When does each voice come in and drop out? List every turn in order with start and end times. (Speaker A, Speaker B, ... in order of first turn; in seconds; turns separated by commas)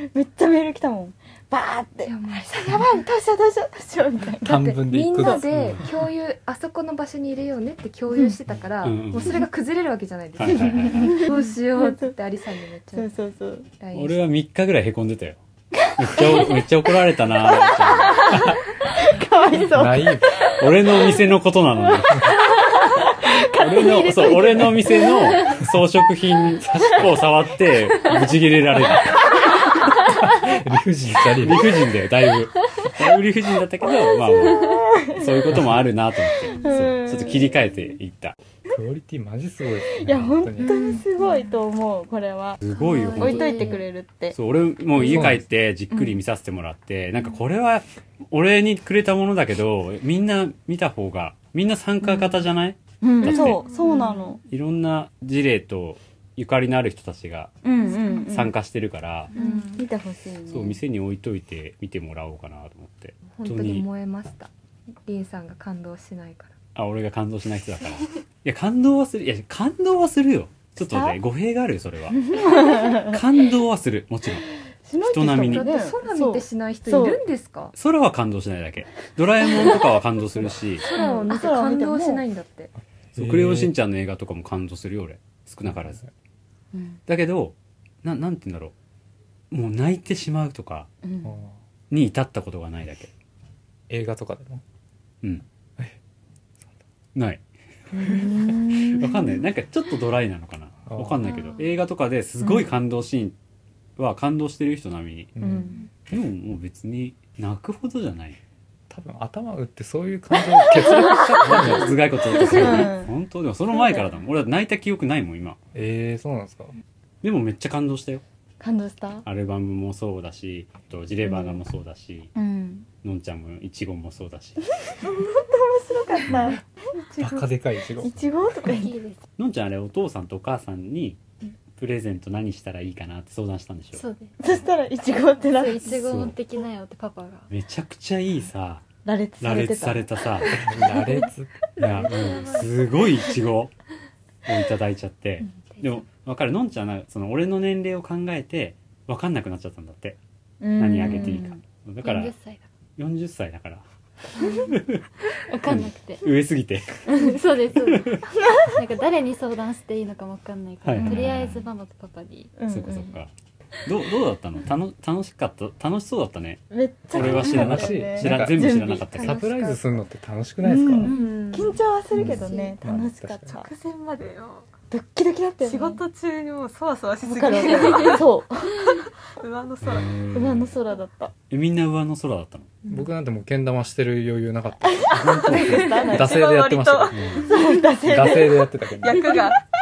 Speaker A: 0.1-4.6, Speaker B: 2.0-2.9, Speaker C: 4.4-5.8, Speaker B: 4.4-13.1, Speaker A: 5.2-5.4, Speaker D: 5.5-5.8, Speaker D: 8.8-9.4, Speaker D: 10.4-11.2, Speaker A: 10.6-12.1, Speaker A: 12.9-13.7, Speaker B: 13.8-14.2, Speaker D: 13.9-15.4, Speaker A: 15.9-16.6, Speaker D: 15.9-18.6, Speaker A: 17.5-20.2, Speaker C: 19.5-20.3, Speaker D: 20.6-22.4, Speaker A: 22.1-25.5, Speaker D: 23.4-29.2, Speaker C: 26.6-27.2, Speaker C: 30.1-31.7, Speaker D: 31.4-38.4, Speaker A: 34.3-35.7, Speaker C: 35.5-35.8, Speaker A: 36.5-37.6, Speaker C: 38.7-40.7, Speaker A: 40.0-44.4, Speaker D: 42.6-43.8, Speaker E: 42.8-43.8, Speaker D: 44.3-53.6, Speaker C: 45.0-45.4, Speaker A: 45.0-45.3, Speaker A: 53.0-54.4, Speaker D: 54.5-57.6, Speaker A: 57.6-58.5, Speaker D: 58.3-59.3, Speaker B: 59.3-59.9, Speaker A: 59.4-60.8, Speaker D: 60.5-63.9, Speaker B: 63.3-64.5, Speaker B: 65.0-66.5, Speaker D: 66.7-72.2, Speaker A: 70.8-71.2, Speaker A: 72.1-73.2, Speaker D: 72.9-74.5, Speaker A: 74.8-77.2, Speaker D: 75.0-75.7, Speaker B: 75.4-77.7, Speaker D: 77.7-80.8, Speaker B: 80.8-82.7, Speaker A: 80.9-82.2, Speaker C: 83.1-83.7, Speaker D: 83.1-86.0, Speaker A: 86.7-87.0, Speaker D: 87.1-88.7, Speaker D: 89.5-90.9, Speaker A: 91.0-91.4, Speaker C: 91.2-91.5, Speaker D: 91.9-93.1, Speaker C: 93.9-94.6, Speaker D: 97.1-97.4, Speaker A: 97.9-99.2, Speaker D: 98.8-103.3, Speaker C: 100.9-101.2, Speaker D: 104.0-105.3, Speaker C: 105.3-105.7, Speaker A: 105.4-105.8, Speaker D: 106.1-108.4, Speaker C: 108.9-112.9, Speaker D: 111.4-115.6, Speaker A: 112.4-113.1, Speaker C: 115.7-116.7, Speaker D: 117.2-118.2, Speaker A: 118.6-119.2, Speaker D: 119.2-122.3, Speaker A: 121.2-121.6, Speaker A: 122.3-122.9, Speaker D: 123.0-124.6, Speaker A: 124.9-127.4, Speaker C: 127.2-128.2, Speaker A: 128.0-129.0, Speaker E: 128.7-129.2, Speaker D: 129.4-131.2, Speaker D: 131.8-134.6, Speaker E: 133.9-134.3, Speaker A: 134.4-136.0, Speaker E: 135.4-137.5, Speaker D: 135.9-136.3, Speaker D: 137.5-138.8, Speaker A: 139.0-141.2, Speaker D: 139.4-140.6, Speaker C: 140.5-141.5, Speaker D: 141.8-143.7, Speaker E: 141.8-142.8, Speaker D: 144.4-150.2, Speaker A: 150.6-151.6, Speaker D: 150.8-152.3, Speaker E: 152.0-152.6, Speaker D: 153.0-153.8, Speaker D: 154.4-155.1, Speaker E: 155.4-156.3, Speaker D: 155.6-157.1, Speaker A: 157.1-157.3, Speaker E: 157.1-162.5, Speaker D: 157.7-158.2, Speaker D: 160.8-161.6, Speaker A: 162.6-163.1, Speaker D: 162.7-163.3, Speaker D: 163.8-169.4, Speaker A: 166.7-169.3, Speaker C: 167.1-171.1, Speaker B: 169.4-169.7, Speaker A: 170.6-173.7, Speaker B: 171.0-171.8, Speaker C: 172.1-173.5, Speaker F: 173.5-174.7, Speaker A: 174.9-176.0, Speaker F: 175.6-178.3, Speaker A: 177.2-179.0, Speaker F: 178.8-180.2, Speaker D: 179.8-180.8, Speaker A: 180.3-181.3, Speaker D: 181.5-182.7, Speaker C: 182.9-187.2, Speaker A: 184.8-186.4, Speaker D: 185.2-185.9, Speaker F: 185.5-187.6, Speaker D: 187.1-187.5, Speaker A: 187.4-188.7, Speaker C: 188.0-189.4, Speaker F: 189.0-189.6